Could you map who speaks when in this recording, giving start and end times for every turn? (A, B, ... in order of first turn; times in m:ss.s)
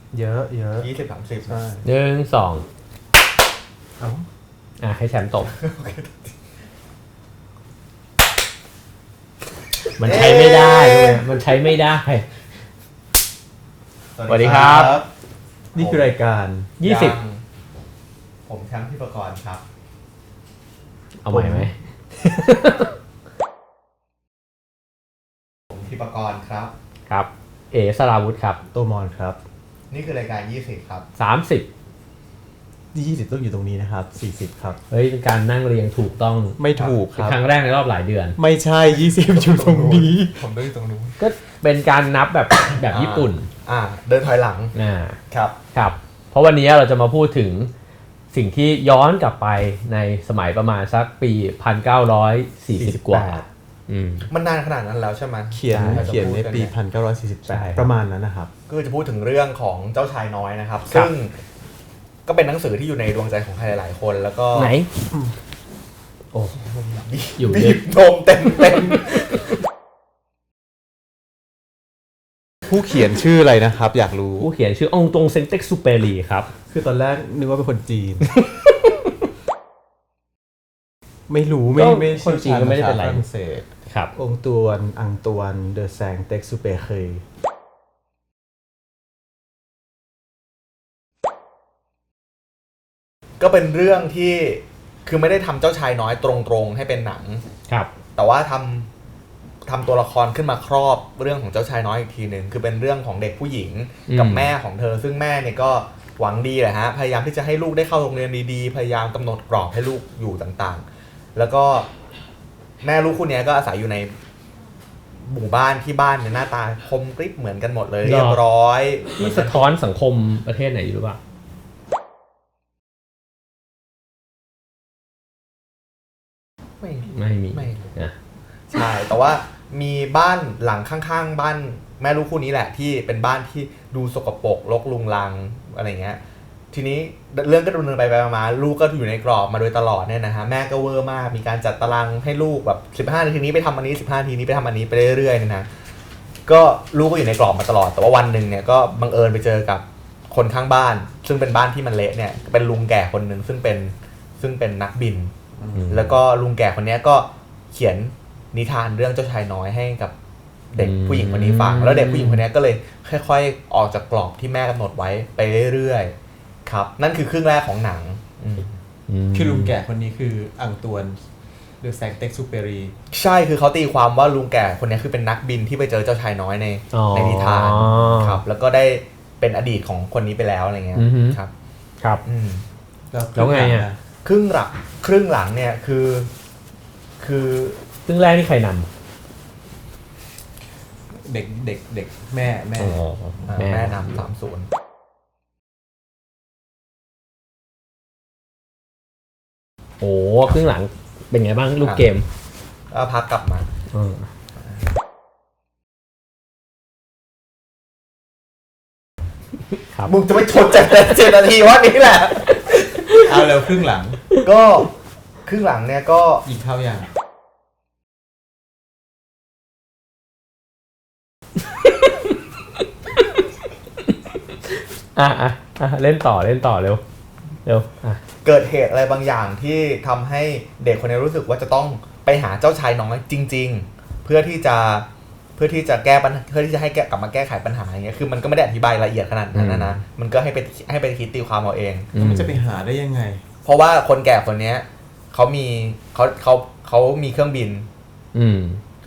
0:00.1-0:00.9 A
0:00.8-0:01.6 B
0:01.5-0:01.8 A
0:01.8-0:02.7 C
0:04.0-0:04.3 A
0:04.8-0:05.5 C
0:05.5-0:06.3 B
0:10.0-0:12.3 C
0:10.0-0:11.5 B
0:14.2-0:15.1 B
0:14.3-0:15.0 C
0:14.4-0:15.0 A
0:15.7-0:16.7 A
0:15.8-0:16.0 B
0:16.8-0:17.2 C
0:16.8-0:17.4 B
0:18.5-0:19.6 B
0:21.2-0:22.9 C
0:21.3-0:21.7 A
0:25.7-0:26.7 B
0:27.1-0:28.6 C
0:28.7-0:29.4 A
0:29.9-0:31.1 B
0:31.2-0:31.7 C
0:32.9-0:34.8 A
0:34.9-0:38.4 C
0:36.6-0:37.4 A
0:38.4-0:40.4 A
0:38.9-0:41.2 B
0:41.2-0:43.5 C
0:42.9-0:44.7 B
0:44.8-0:45.2 C
0:45.3-0:45.6 B
0:45.7-0:47.7 C
0:48.3-0:54.3 C
0:52.8-0:53.5 A
0:54.3-0:56.7 B
0:55.5-0:58.5 A
0:55.7-0:56.1 C
0:57.5-0:57.9 C
0:58.7-1:01.4 B
1:02.3-1:04.8 B
1:04.5-1:04.9 C
1:06.6-1:09.2 B
1:07.4-1:07.8 C
1:12.7-1:14.5 A
1:14.4-1:16.5 C
1:16.7-1:18.4 A
1:21.3-1:27.2 A
1:21.8-1:23.2 C
1:33.4-1:37.4 B
1:38.2-1:38.9 B
1:39.7-1:50.8 B
1:44.1-1:44.5 C
1:51.4-1:51.9 B
1:52.8-1:54.1 B
1:55.2-1:59.7 B
1:58.0-1:58.4 C
1:59.2-2:01.2 C
2:06.8-2:07.9 B
2:07.1-2:08.2 C
2:08.7-2:16.2 B
2:16.7-2:25.7 B
2:26.5-2:35.3 B
2:35.6-2:36.0 A
2:35.8-2:36.2 C
2:35.9-2:40.1 B
2:40.7-2:46.2 B
2:40.8-2:42.4 C
2:46.7-2:48.7 B
2:49.1-2:49.7 C
2:49.3-2:51.2 A
2:51.8-2:53.0 A
2:53.1-3:01.5 B
2:56.9-2:58.4 C
3:01.0-3:01.4 C
3:02.2-3:02.6 B
3:03.1-3:04.0 A
3:03.4-3:03.9 C
3:04.2-3:06.3 B
3:07.2-3:07.8 B
3:08.1-3:08.9 C
3:11.1-3:13.1 A
3:12.8-3:14.2 C
3:13.5-3:14.7 B
3:20.0-3:22.3 C
3:21.8-3:22.1 B
3:22.9-3:23.7 B
3:23.9-3:24.3 C
3:30.1-3:32.6 B
3:32.7-3:33.4 C
3:33.2-3:34.2 A
3:34.4-3:34.9 B
3:35.4-3:36.4 B
3:36.4-3:37.1 A
3:41.8-3:42.3 C
3:44.1-3:47.0 C
3:47.6-3:48.2 C
3:48.4-4:02.1 B
3:59.5-4:00.0 C
4:02.1-4:02.6 C
4:02.2-4:03.4 A
4:03.6-4:07.9 B
4:08.3-4:08.8 C